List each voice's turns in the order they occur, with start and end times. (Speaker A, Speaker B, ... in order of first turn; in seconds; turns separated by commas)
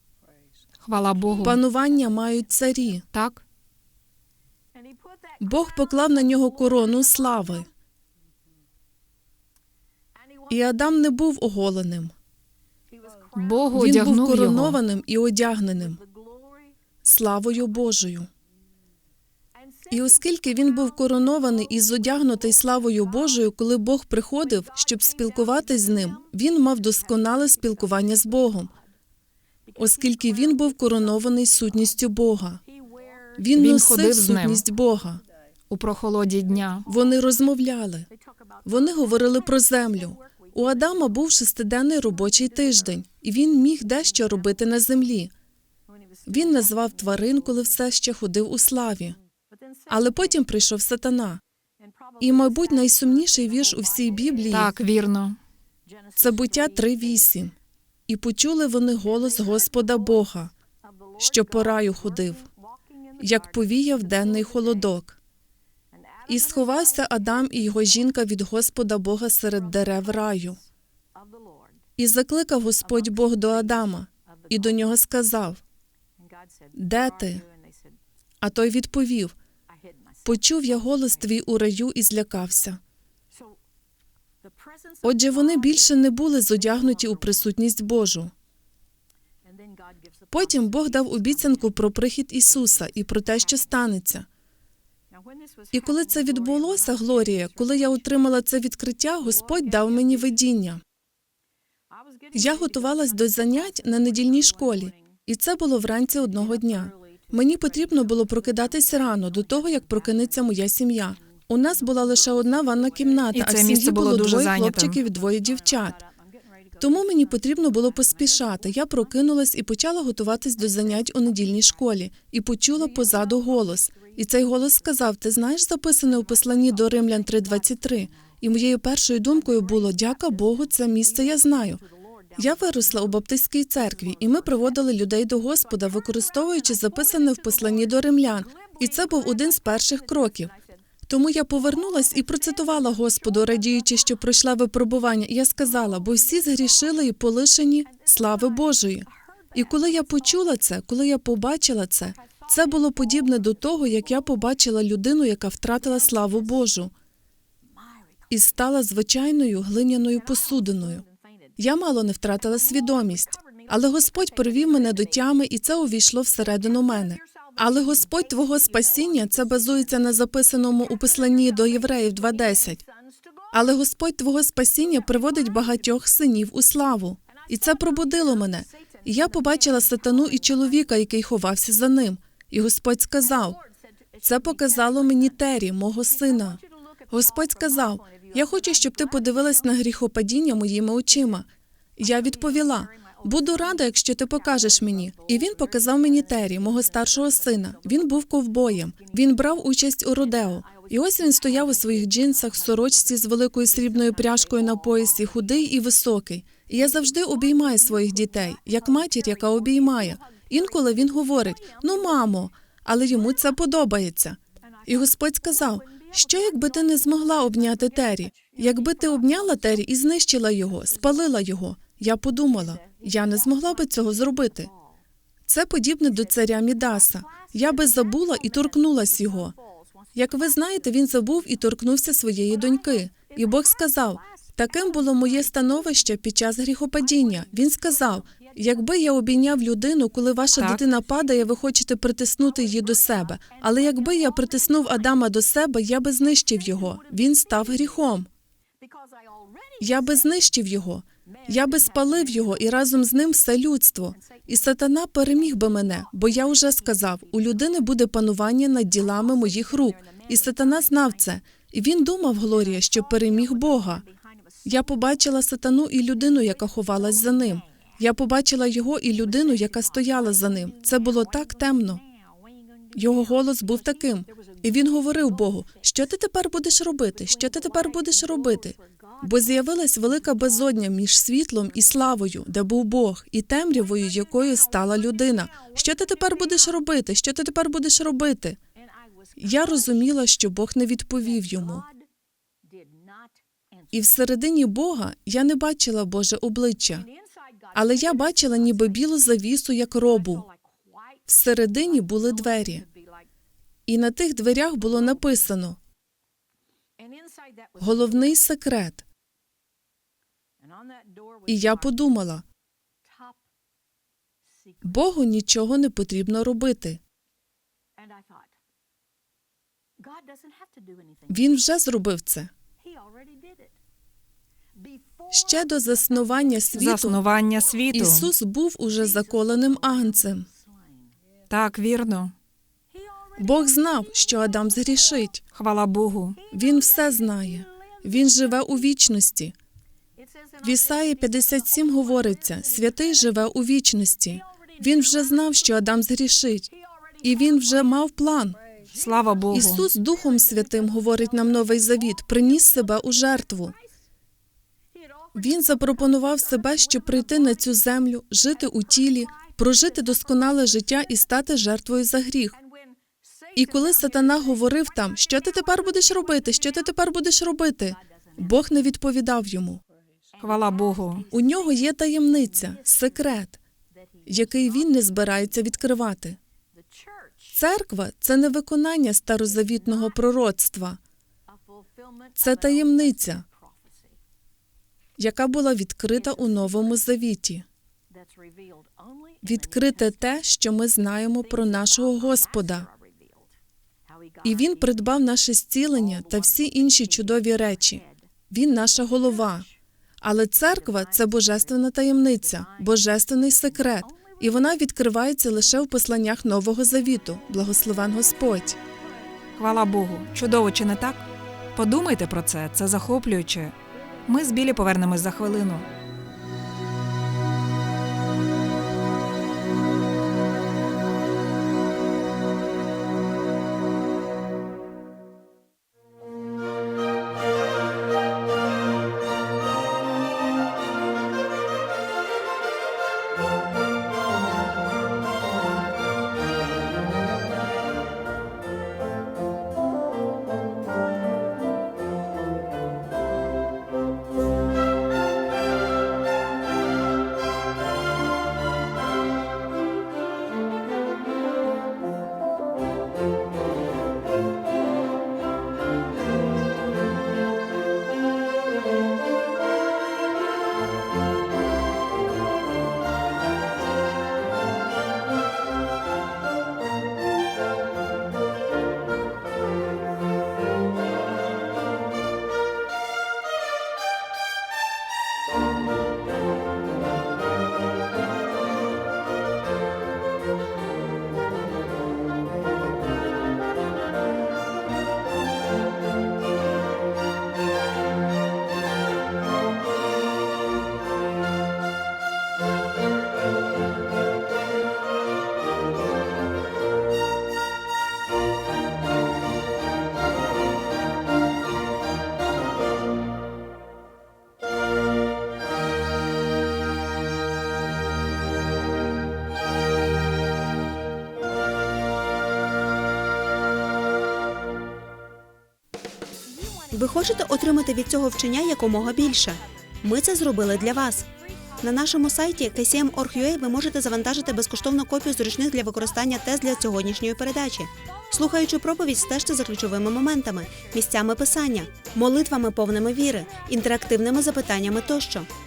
Speaker A: 0.8-1.6, Speaker B: 1.4-3.0, Speaker A: 3.1-3.4, Speaker B: 5.4-7.7, Speaker B: 10.5-12.1, Speaker A: 13.3-14.8, Speaker B: 13.7-16.0, Speaker B: 17.0-18.3, Speaker B: 19.9-28.7, Speaker B: 29.8-32.6, Speaker B: 33.4-35.2, Speaker A: 33.5-34.6, Speaker A: 35.7-36.9, Speaker B: 36.9-38.1, Speaker B: 38.6-45.3, Speaker B: 46.2-49.2, Speaker B: 49.9-51.4, Speaker B: 52.2-54.7, Speaker A: 54.5-55.4, Speaker B: 56.1-57.5, Speaker B: 58.1-60.5, Speaker B: 61.2-62.5, Speaker B: 63.2-65.2, Speaker B: 66.3-70.6, Speaker B: 72.0-75.6, Speaker B: 76.7-77.4, Speaker B: 78.4-79.3, Speaker B: 80.2-82.8, Speaker B: 85.0-88.3, Speaker B: 90.3-94.2, Speaker B: 95.7-100.8, Speaker B: 102.3-116.0, Speaker A: 113.3-115.0, Speaker B: 116.8-131.8, Speaker B: 132.3-140.5, Speaker B: 141.1-156.9, Speaker B: 158.3-161.0, Speaker B: 161.6-172.8, Speaker B: 173.5-183.6, Speaker B: 184.2-191.5, Speaker B: 192.0-224.7, Speaker B: 225.5-229.5, Speaker B: 230.1-248.3, Speaker A: 240.6-240.8, Speaker B: 249.8-264.1, Speaker B: 264.6-272.0, Speaker B: 272.9-288.6, Speaker B: 289.4-291.8, Speaker B: 293.9-297.1, Speaker B: 297.7-300.4, Speaker B: 301.2-302.9, Speaker B: 303.9-305.8, Speaker B: 307.8-309.0, Speaker B: 311.5-312.4, Speaker B: 314.8-317.0, Speaker B: 321.3-322.5, Speaker B: 325.3-327.2, Speaker A: 326.7-328.3, Speaker B: 327.9-330.5, Speaker A: 331.5-332.3, Speaker B: 333.4-335.4, Speaker A: 335.5-336.4, Speaker B: 336.5-339.5, Speaker B: 340.6-346.7, Speaker B: 347.2-348.6, Speaker A: 348.9-349.9, Speaker B: 349.5-353.7, Speaker B: 355.3-362.6, Speaker B: 363.6-369.8, Speaker A: 370.4-371.3, Speaker B: 371.3-373.6, Speaker B: 374.2-376.4, Speaker B: 377.5-381.0, Speaker B: 382.3-383.4, Speaker B: 385.2-387.6, Speaker B: 389.4-392.9, Speaker B: 394.4-399.7, Speaker B: 400.2-408.8, Speaker A: 409.6-413.7, Speaker A: 414.2-415.9, Speaker C: 516.9-521.3, Speaker C: 521.8-535.5